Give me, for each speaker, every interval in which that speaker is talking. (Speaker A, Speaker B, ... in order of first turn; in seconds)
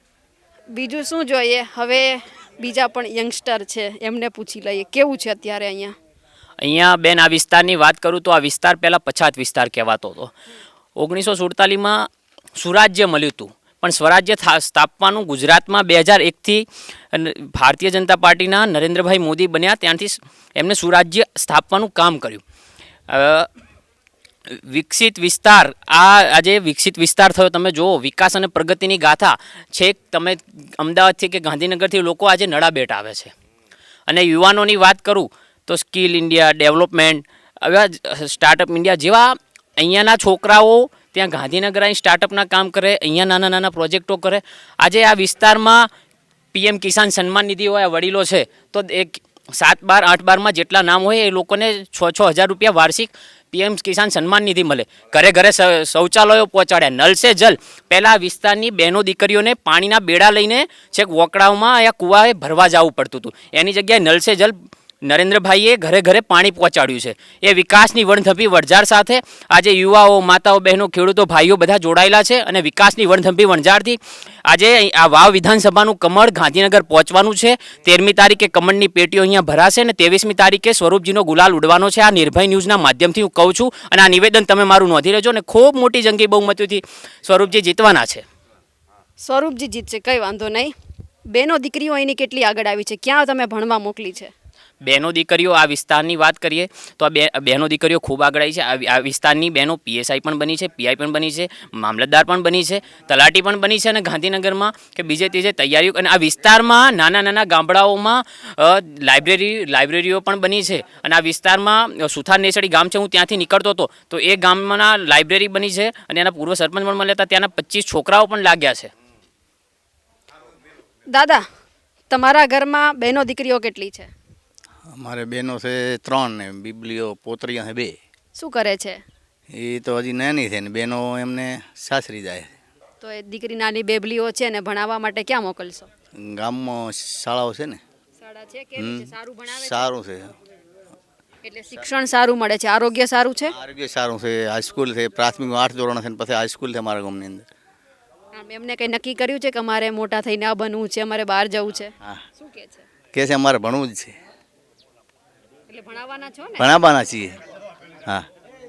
Speaker A: 0.7-6.0, 89.2-90.7, 91.3-94.3, 121.1-121.4, 122.1-124.1, 128.4-129.0, 133.0-135.9, 138.2-139.9, 141.4-143.5, 148.3-152.8, 155.7-156.7
Speaker B: 6.6-10.3, 11.0-22.4, 23.1-23.5, 24.5-33.3, 34.1-45.9, 46.5-88.2, 94.8-118.9
Speaker C: 125.0-128.0, 129.5-132.6, 136.2-137.8, 138.8-140.3, 143.5-147.4, 153.1-154.1, 156.6-157.4